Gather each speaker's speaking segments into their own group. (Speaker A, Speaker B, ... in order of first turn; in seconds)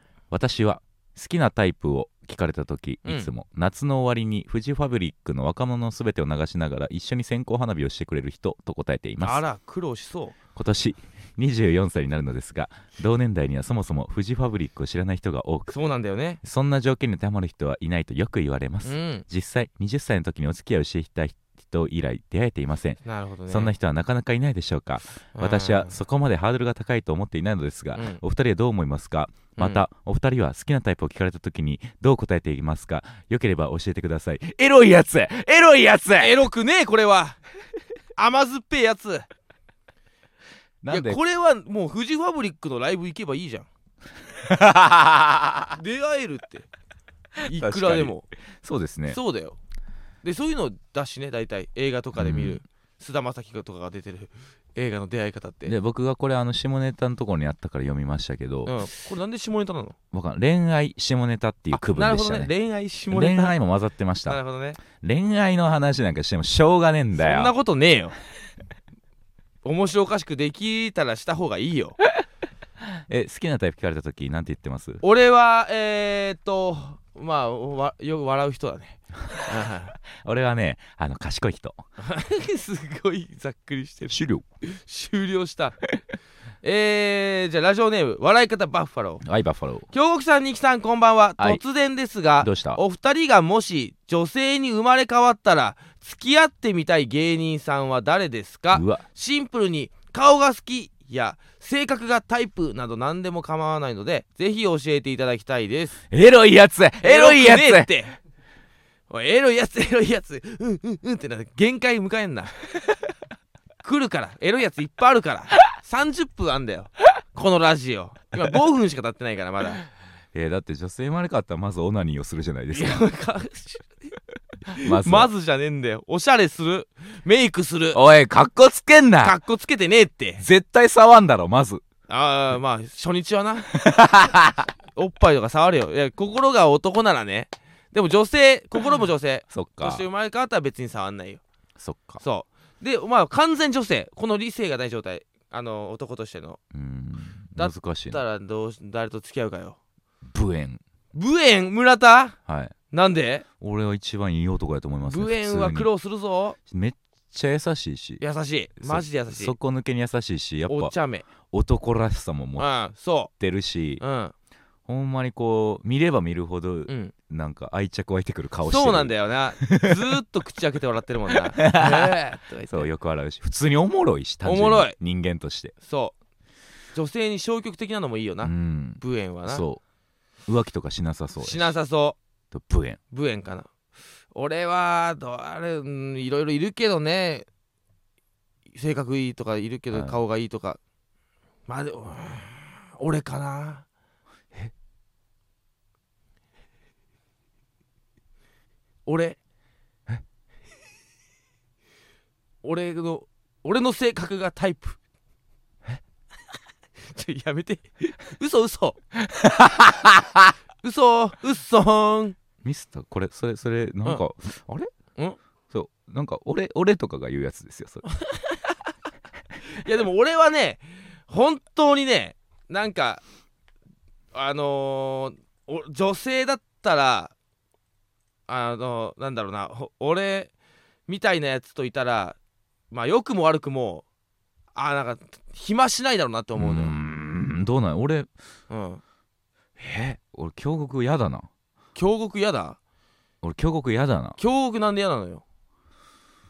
Speaker A: 0.3-9.4, 10.5-15.7, 16.4-36.4, 40.8-41.2, 44.4-45.8, 47.4-49.2, 52.1-52.6, 55.6-58.8, 60.1-62.5, 63.1-67.5, 73.1-75.0, 80.1-81.8, 84.1-84.4, 89.2-89.9, 92.4-92.8, 98.7-99.0, 106.1-107.9, 120.3-123.0, 124.8-125.3, 127.9-129.4, 130.4-131.8, 133.7-134.7, 139.5-140.0, 141.8-142.2, 146.7-148.2, 150.3-150.8, 152.4-152.7, 153.6-155.9, 156.7-158.2, 158.8-162.7, 163.4-164.0, 164.8-170.0, 171.3-175.7, 178.4-179.8, 180.5-181.7, 182.5-183.0, 189.9-190.2, 209.2-210.5, 212.6-214.9, 215.7-218.1, 236.6-238.3, 239.8-241.5, 243.4-244.4
Speaker B: 3.0-3.3, 9.2-10.4, 15.7-16.4, 18.8-19.2, 23.0-23.7, 25.3-26.0, 27.9-28.2, 29.6-29.8, 36.2-37.4, 38.1-39.2, 40.9-43.7, 45.8-46.7, 47.4-48.2, 49.1-49.6, 50.2-55.7, 58.6-60.0, 61.7-63.5, 64.3-64.8, 67.2-68.1, 69.6-72.0, 75.0-79.9, 82.0-85.8, 86.6-89.2, 89.9-106.0, 107.0-108.2, 109.1-112.6, 113.8-119.8, 122.7-124.1, 124.7-128.0, 129.2-130.4, 132.1-133.7, 134.9-141.4, 142.2-146.6, 147.6-149.8, 151.1-152.4, 152.9-153.4, 155.1-156.6, 158.2-159.5, 160.7-161.2, 162.6-163.3, 164.0-164.3, 166.9-167.1, 168.7-172.9, 174.4-174.9, 175.8-176.1, 176.9-179.6, 181.4-182.2, 183.1-183.7, 184.3-187.4, 188.7-190.8, 191.7-193.8, 199.1-199.4, 202.6-205.0, 207.0-209.0, 210.8-212.4, 218.2-218.7, 219.6-223.2, 224.3-227.3, 228.5-230.5, 231.1-232.4, 232.9-234.0, 234.7-236.9, 238.7-239.0, 241.9-242.8, 244.4-245.4